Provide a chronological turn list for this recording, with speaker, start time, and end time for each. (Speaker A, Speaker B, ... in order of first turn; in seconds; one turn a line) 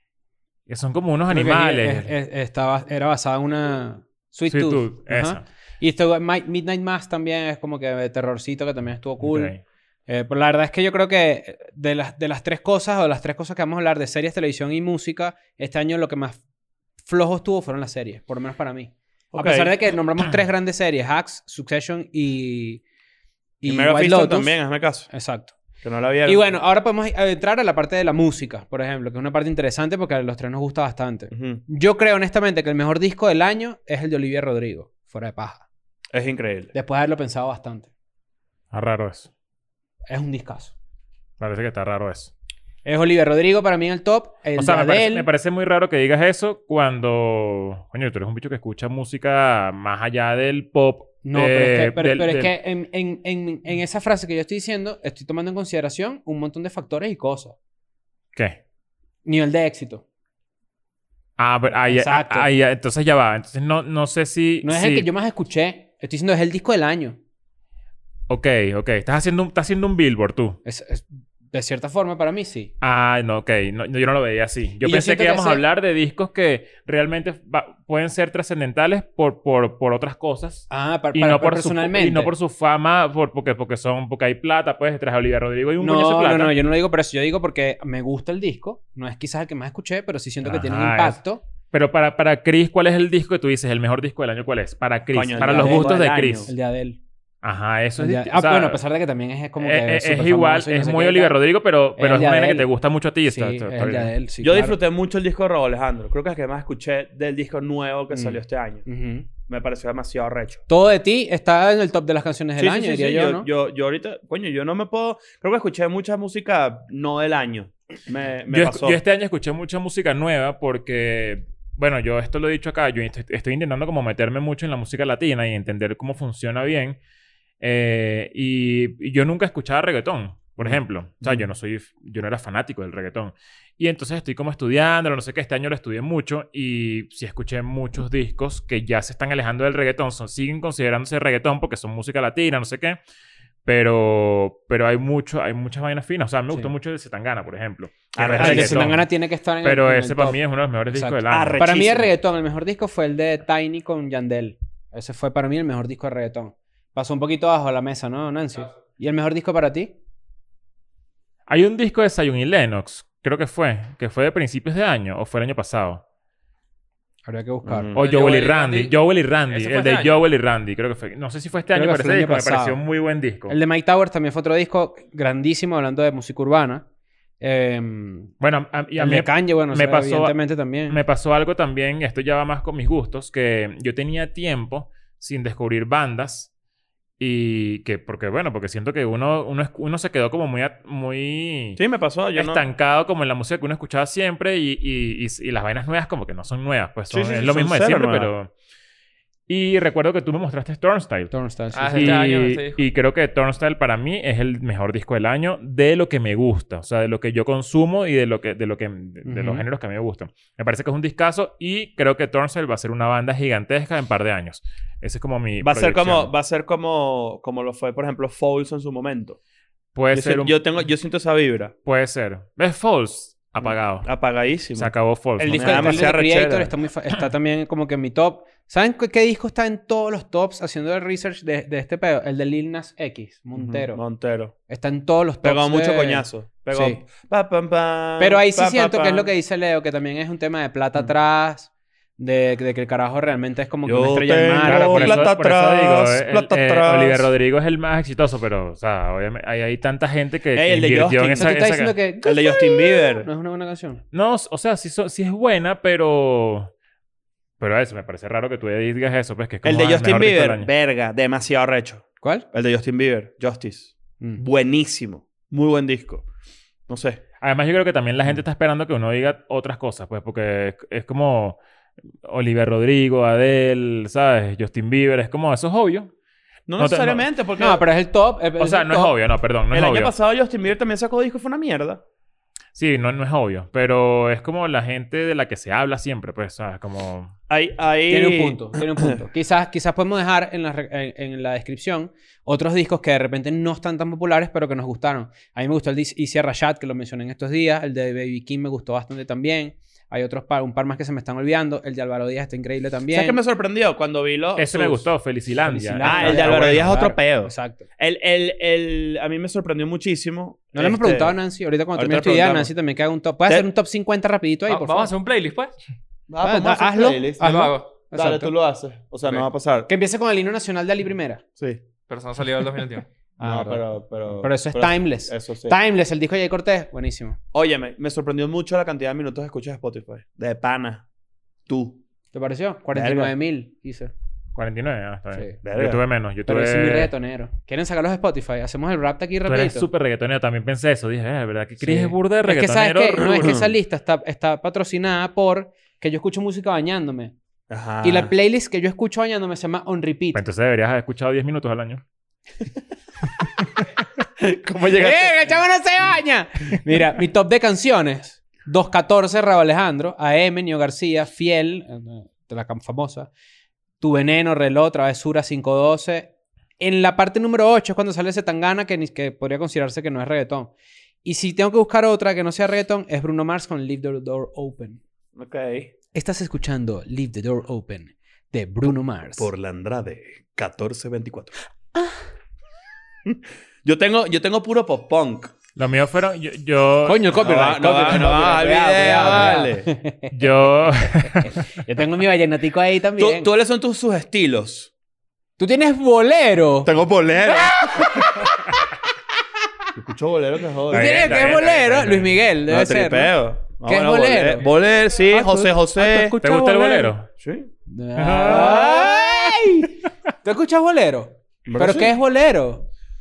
Speaker A: 0.7-2.1
Speaker B: 1.3-9.5
Speaker A: 4.5-5.4
Speaker A: 9.2-9.6
Speaker B: 10.1-16.4
Speaker B: 17.0-22.8
Speaker C: 19.3-19.7
Speaker B: 23.6-25.5
Speaker C: 23.6-25.1
Speaker C: 25.8-26.6
Speaker B: 26.2-35.6
Speaker C: 31.3-31.6
Speaker C: 36.1-36.7
Speaker B: 36.7-37.9
Speaker A: 38.7-39.3
Speaker B: 40.1-40.7
Speaker A: 41.4-42.3
Speaker B: 42.9-45.3
Speaker A: 44.6-52.5
Speaker B: 51.2-57.6
Speaker B: 59.2-60.0
Speaker A: 61.4-65.1
Speaker B: 61.7-62.5
Speaker B: 64.6-67.2
Speaker A: 68.3-70.6
Speaker B: 70.7-72.7
Speaker A: 72.8-86.5
Speaker B: 74.8-75.6
Speaker B: 80.7-82.3
Speaker B: 85.8-91.4
Speaker A: 90.4-91.2
Speaker A: 91.7-96.5
Speaker C: 95.1-96.5
Speaker B: 95.4-97.0
Speaker A: 97.4-98.8
Speaker B: 98.0-101.4
Speaker A: 99.6-104.1
Speaker B: 102.0-102.7
Speaker B: 103.3-104.8
Speaker C: 104.4-108.8
Speaker B: 108.1-109.3
Speaker C: 109.5-110.6
Speaker B: 110.7-113.5
Speaker C: 112.6-119.0
Speaker A: 118.5-127.0
Speaker A: 127.6-143.0
Speaker C: 130.6-131.4
Speaker A: 143.7-149.1
Speaker C: 148.1-148.9
Speaker B: 148.4-150.4
Speaker A: 149.6-151.6
Speaker B: 150.9-159.9
Speaker C: 151.3-152.1
Speaker A: 161.5-166.0
Speaker B: 167.3-167.9
Speaker C: 167.7-168.0
Speaker A: 167.9-173.6
Speaker D: 168.0-168.9
Speaker D: 169.5-170.2
Speaker B: 171.7-172.8
Speaker B: 173.5-176.8
Speaker B: 177.4-178.3
Speaker A: 178.4-180.4
Speaker B: 179.0-181.0
Speaker A: 180.9-186.5
Speaker A: 187.2-191.8
Speaker C: 191.8-192.7
Speaker A: 192.3-198.5
Speaker C: 197.1-198.3
Speaker A: 199.5-201.3
Speaker B: 201.3-202.3
Speaker D: 201.7-202.9
Speaker A: 201.9-216.3
Speaker B: 209.2-209.6
Speaker C: 215.6-219.4
Speaker A: 220.0-220.7
Speaker C: 220.1-221.7
Speaker A: 221.9-224.1
Speaker C: 223.6-224.9
Speaker A: 224.8-226.1
Speaker B: 225.4-234.0
Speaker C: 225.5-226.7
Speaker C: 233.6-234.5
Speaker B: 234.7-237.0
Speaker C: 235.4-239.3
Speaker B: 238.2-245.3
Speaker C: 243.9-247.3
Speaker A: 244.6-251.9
Speaker C: 250.6-251.6
Speaker B: 251.4-254.0
Speaker C: 252.2-253.3
Speaker A: 254.1-256.7
Speaker A: 257.6-260.7
Speaker C: 259.6-266.3
Speaker C: 266.9-267.2
Speaker A: 267.4-271.6
Speaker A: 272.2-276.1
Speaker C: 276.7-277.8
Speaker A: 276.8-277.2
Speaker B: 277.6-279.1
Speaker A: 278.6-280.1
Speaker C: 279.7-282.0
Speaker A: 282.8-287.3
Speaker C: 287.5-289.1
Speaker B: 288.1-303.4
Speaker C: 303.1-305.1
Speaker A: 304.6-306.9
Speaker B: 305.7-307.9
Speaker C: 306.0-311.4
Speaker B: 310.7-315.1
Speaker C: 311.9-312.7
Speaker D: 314.7-315.8
Speaker C: 316.3-319.9
Speaker B: 316.4-318.5
Speaker D: 317.4-317.9
Speaker B: 319.9-321.4
Speaker D: 322.1-323.1
Speaker B: 323.4-327.4
Speaker C: 323.4-325.8
Speaker C: 327.5-331.1
Speaker C: 331.7-332.0
Speaker B: 332.3-334.1
Speaker C: 332.9-333.3
Speaker A: 334.6-337.1
Speaker B: 335.3-335.6
Speaker C: 335.6-336.0
Speaker B: 336.5-339.9
Speaker A: 339.5-343.6
Speaker B: 341.8-347.3
Speaker C: 343.3-343.7
Speaker C: 347.7-348.3
Speaker B: 348.0-350.4
Speaker A: 350.3-352.0
Speaker C: 354.4-355.5
Speaker B: 354.9-363.3
Speaker B: 364.0-370.7
Speaker B: 371.2-375.0
Speaker C: 375.4-375.9
Speaker B: 376.1-379.5
Speaker C: 379.4-381.6
Speaker C: 383.3-385.5
Speaker A: 385.8-387.4
Speaker B: 387.1-390.3
Speaker C: 387.4-389.9
Speaker A: 390.3-391.6
Speaker B: 391.2-393.5
Speaker C: 393.2-394.9
Speaker B: 395.6-396.9
Speaker C: 396.8-398.4
Speaker B: 397.5-398.6
Speaker C: 399.9-401.5
Speaker B: 400.9-403.3
Speaker A: 400.9-402.3
Speaker C: 402.7-406.4
Speaker B: 403.9-404.7
Speaker B: 405.2-407.1
Speaker A: 406.4-407.3
Speaker C: 407.4-407.7
Speaker B: 407.9-412.9
Speaker A: 408.2-408.9
Speaker C: 408.4-409.5
Speaker C: 411.7-412.1